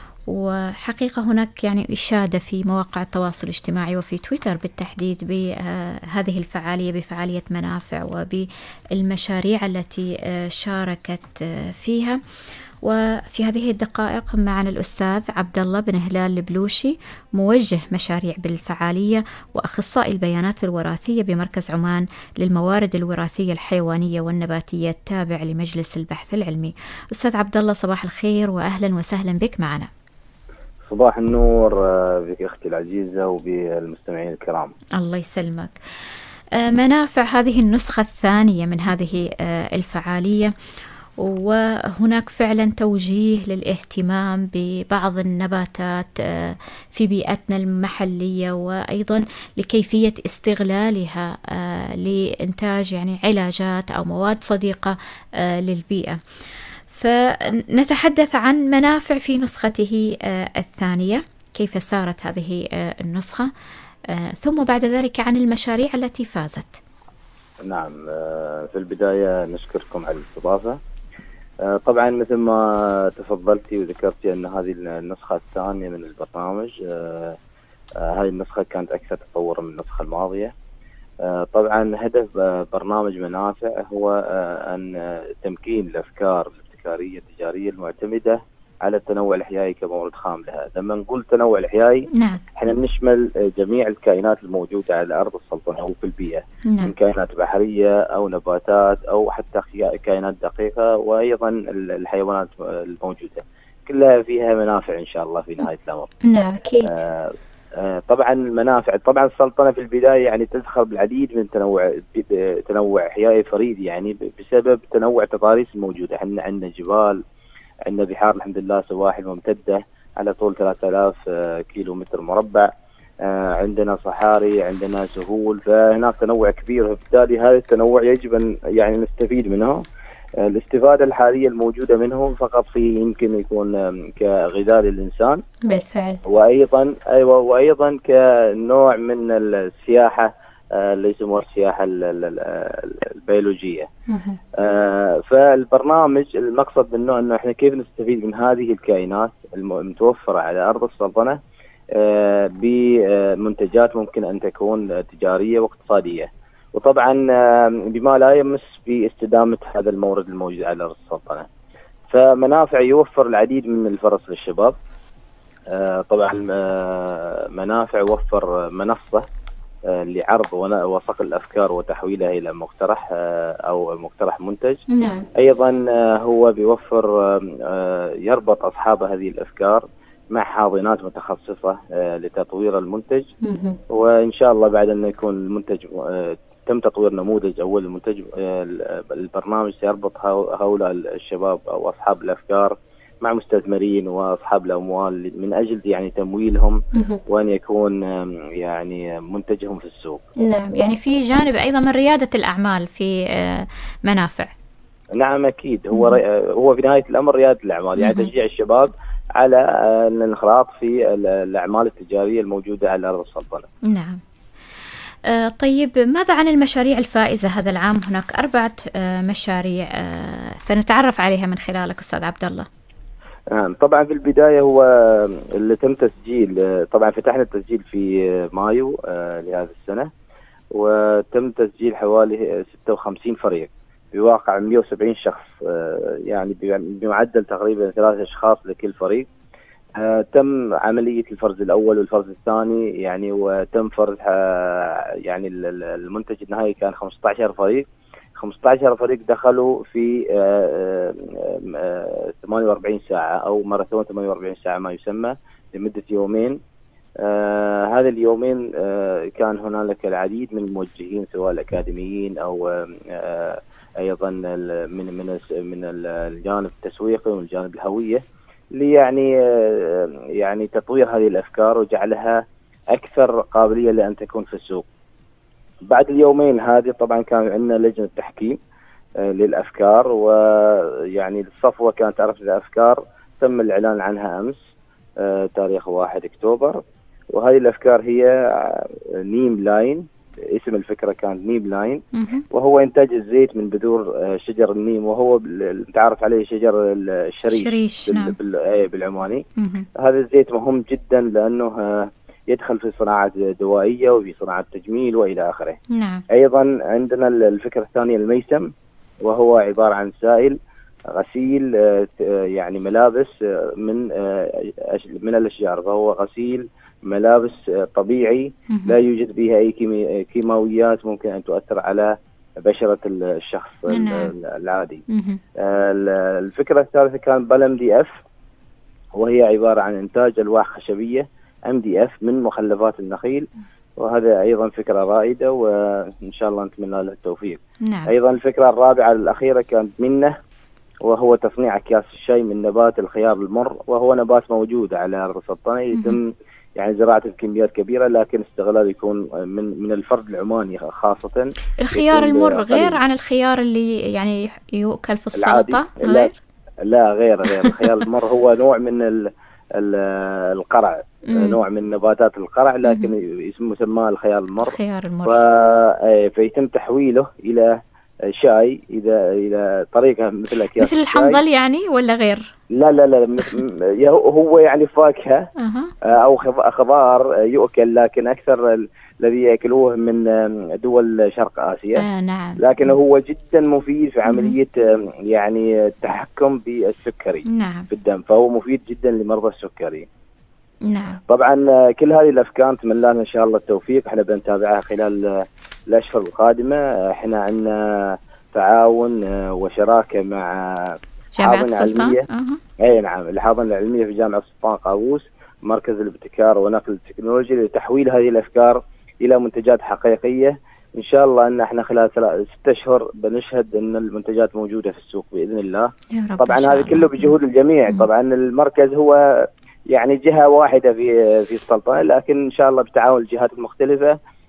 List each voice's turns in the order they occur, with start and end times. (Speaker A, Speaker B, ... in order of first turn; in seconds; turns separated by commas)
Speaker A: 0.3-12.2, Speaker A: 12.8-29.9, Speaker B: 30.9-34.7, Speaker A: 35.0-35.8, Speaker A: 36.6-40.5, Speaker A: 41.2-56.2, Speaker A: 56.9-63.5, Speaker A: 64.1-66.8, Speaker B: 67.7-70.8, Speaker B: 71.7-77.4, Speaker B: 78.0-80.5, Speaker B: 81.2-106.1, Speaker A: 92.1-92.4, Speaker A: 96.7-96.9, Speaker A: 106.2-107.0, Speaker B: 106.9-117.2, Speaker B: 117.9-122.7, Speaker B: 123.2-129.8, Speaker B: 130.4-135.4, Speaker A: 135.7-136.2, Speaker B: 136.2-143.9, Speaker A: 144.1-144.4, Speaker B: 144.5-151.4, Speaker B: 151.9-161.5, Speaker B: 162.1-164.8, Speaker B: 165.7-169.2, Speaker B: 169.9-174.8, Speaker A: 174.9-175.3, Speaker B: 175.3-183.3, Speaker A: 183.4-183.8, Speaker B: 183.9-200.2, Speaker A: 196.9-197.2, Speaker A: 200.4-204.5, Speaker B: 205.2-213.7, Speaker A: 205.9-206.2, Speaker A: 208.0-208.3, Speaker A: 213.9-214.2, Speaker A: 215.3-222.7, Speaker B: 223.5-230.1, Speaker B: 230.7-239.3, Speaker B: 240.0-256.6, Speaker B: 257.2-268.2, Speaker B: 268.8-272.4, Speaker B: 272.9-274.9, Speaker B: 275.9-278.6, Speaker B: 279.2-284.6, Speaker B: 285.2-286.8, Speaker B: 287.3-299.4, Speaker A: 292.1-292.4, Speaker A: 297.5-298.4, Speaker A: 299.6-299.9, Speaker B: 300.0-305.8, Speaker A: 305.9-306.2, Speaker B: 306.3-308.7, Speaker B: 309.2-310.6, Speaker B: 311.1-325.0, Speaker A: 318.7-319.0, Speaker A: 323.9-324.3, Speaker A: 325.1-325.4, Speaker B: 325.6-328.1, Speaker B: 329.1-333.5, Speaker B: 334.0-340.3, Speaker A: 337.9-338.1, Speaker B: 341.1-353.0, Speaker A: 345.9-346.2, Speaker A: 351.8-356.4, Speaker B: 355.4-356.3, Speaker B: 356.8-367.8, Speaker A: 361.3-361.6, Speaker A: 364.6-365.4, Speaker B: 368.3-371.4, Speaker A: 370.8-372.5, Speaker B: 372.7-375.5, Speaker A: 375.6-375.9, Speaker B: 376.0-382.1, Speaker A: 382.0-382.9, Speaker B: 382.6-390.1, Speaker A: 384.3-384.6, Speaker A: 387.5-387.9, Speaker A: 390.9-391.2, Speaker B: 391.3-402.2, Speaker A: 401.4-402.6, Speaker B: 402.8-419.2, Speaker A: 416.1-417.4, Speaker B: 419.9-424.2